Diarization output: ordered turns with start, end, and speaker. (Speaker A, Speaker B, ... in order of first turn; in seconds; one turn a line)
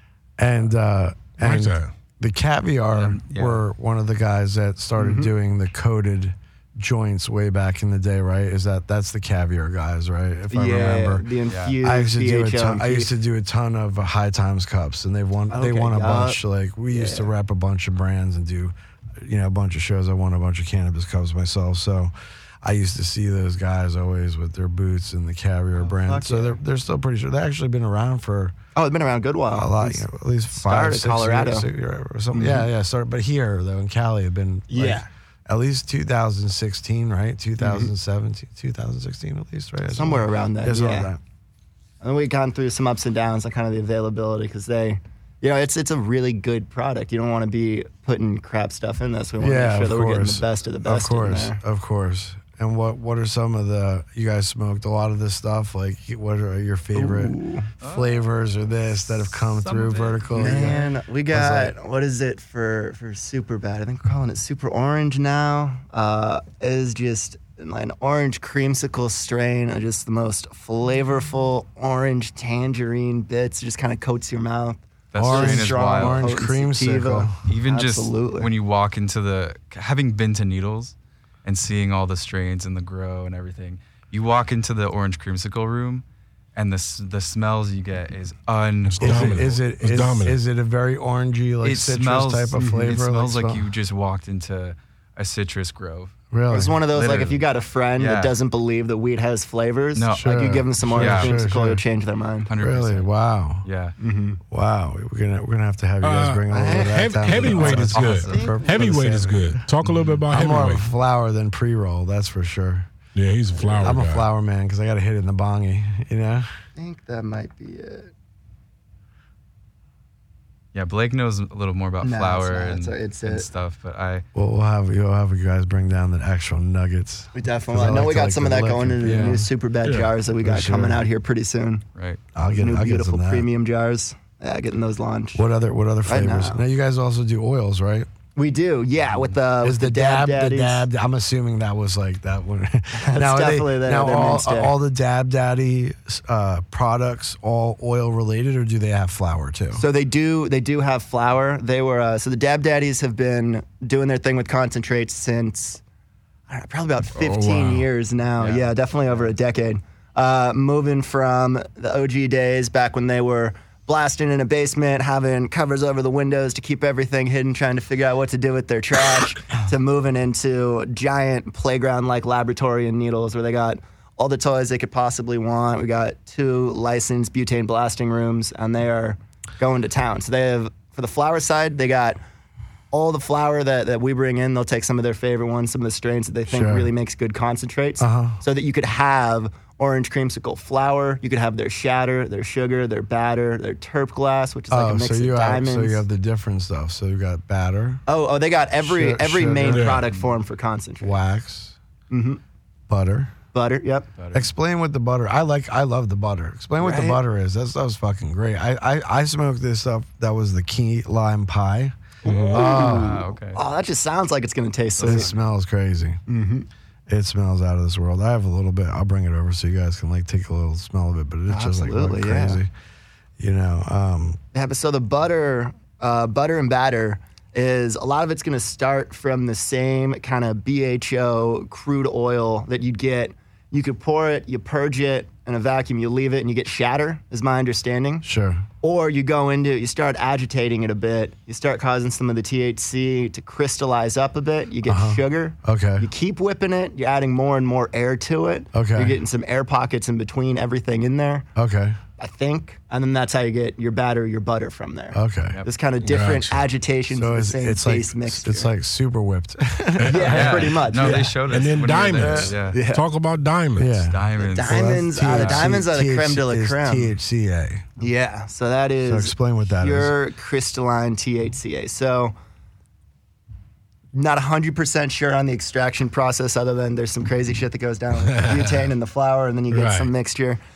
Speaker A: 0.4-11.3
Speaker B: 1.4-1.9
Speaker C: 2.9-3.6
Speaker D: 5.0-5.3
Speaker D: 10.5-13.1
Speaker C: 11.4-11.8
Speaker A: 11.8-22.1
Speaker D: 15.5-16.4
Speaker D: 16.9-17.3
Speaker A: 22.6-28.6
Speaker D: 25.8-26.6
Speaker D: 28.7-31.7
Speaker A: 29.5-41.2
Speaker D: 32.3-32.7
Speaker D: 34.7-35.1
Speaker D: 37.6-37.9
Speaker D: 39.9-41.1
Speaker D: 42.0-51.6
Speaker A: 49.4-61.8
Speaker D: 56.9-57.7
Speaker C: 57.8-60.9
Speaker D: 60.3-78.5
Speaker C: 75.1-76.3
Speaker A: 75.2-77.4
Speaker C: 77.5-89.5
Speaker B: 88.9-90.4
Speaker A: 89.0-93.7
Speaker C: 91.6-96.1
Speaker D: 92.5-92.9
Speaker A: 96.3-96.8
Speaker D: 96.5-102.5
Speaker C: 96.9-98.4
Speaker C: 99.9-101.4
Speaker A: 100.1-101.8
Speaker C: 102.5-103.1
Speaker A: 102.6-103.7
Speaker C: 103.6-104.0
Speaker D: 104.0-104.4
Speaker A: 104.5-109.7
Speaker B: 106.0-110.8
Speaker D: 106.5-109.0
Speaker C: 107.5-108.5
Speaker C: 109.8-110.2
Speaker A: 110.3-112.9
Speaker B: 113.1-114.3
Speaker A: 113.6-116.5
Speaker D: 116.8-118.1
Speaker C: 120.7-124.2
Speaker D: 122.0-123.5
Speaker A: 124.3-129.5
Speaker D: 127.3-131.8
Speaker B: 129.8-130.1
Speaker A: 130.4-131.0
Speaker C: 131.9-132.2
Speaker A: 132.3-133.5
Speaker D: 132.5-135.4
Speaker A: 135.3-138.1
Speaker D: 136.0-136.6
Speaker D: 138.3-140.8
Speaker A: 139.6-149.8
Speaker D: 142.9-144.7
Speaker D: 149.7-155.8
Speaker D: 156.5-182.2
Speaker B: 157.1-157.8
Speaker C: 158.4-159.3
Speaker D: 182.9-196.0
Speaker A: 186.5-186.9
Speaker A: 188.0-188.4
Speaker A: 194.7-198.0
Speaker D: 198.1-201.2
Speaker A: 198.8-200.0
Speaker B: 199.7-200.1
Speaker A: 201.0-201.8
Speaker D: 202.1-202.4
Speaker A: 202.9-203.3
Speaker D: 203.5-204.1
Speaker C: 204.2-204.5
Speaker A: 204.3-211.9
Speaker D: 206.8-207.2
Speaker B: 212.2-212.7
Speaker D: 212.2-215.3
Speaker A: 212.5-213.2
Speaker C: 212.7-213.6
Speaker C: 215.0-215.3
Speaker A: 215.0-216.2
Speaker D: 216.3-216.7
Speaker A: 217.1-222.7
Speaker D: 221.5-222.6
Speaker A: 223.4-224.4
Speaker D: 224.5-238.2
Speaker A: 238.2-238.7
Speaker D: 238.8-251.5
Speaker A: 244.8-246.1
Speaker A: 248.7-249.2
Speaker A: 251.5-252.0
Speaker D: 252.2-258.7
Speaker A: 255.1-255.6
Speaker B: 256.0-256.7
Speaker A: 257.1-261.3
Speaker B: 260.0-264.0
Speaker D: 260.1-261.4
Speaker C: 260.3-262.8
Speaker A: 262.1-262.6
Speaker D: 262.7-263.0
Speaker A: 263.8-267.8
Speaker C: 264.1-265.7
Speaker D: 264.4-267.1
Speaker D: 268.0-272.3
Speaker A: 269.0-270.1
Speaker D: 274.1-280.6
Speaker B: 278.2-278.9
Speaker B: 279.7-280.1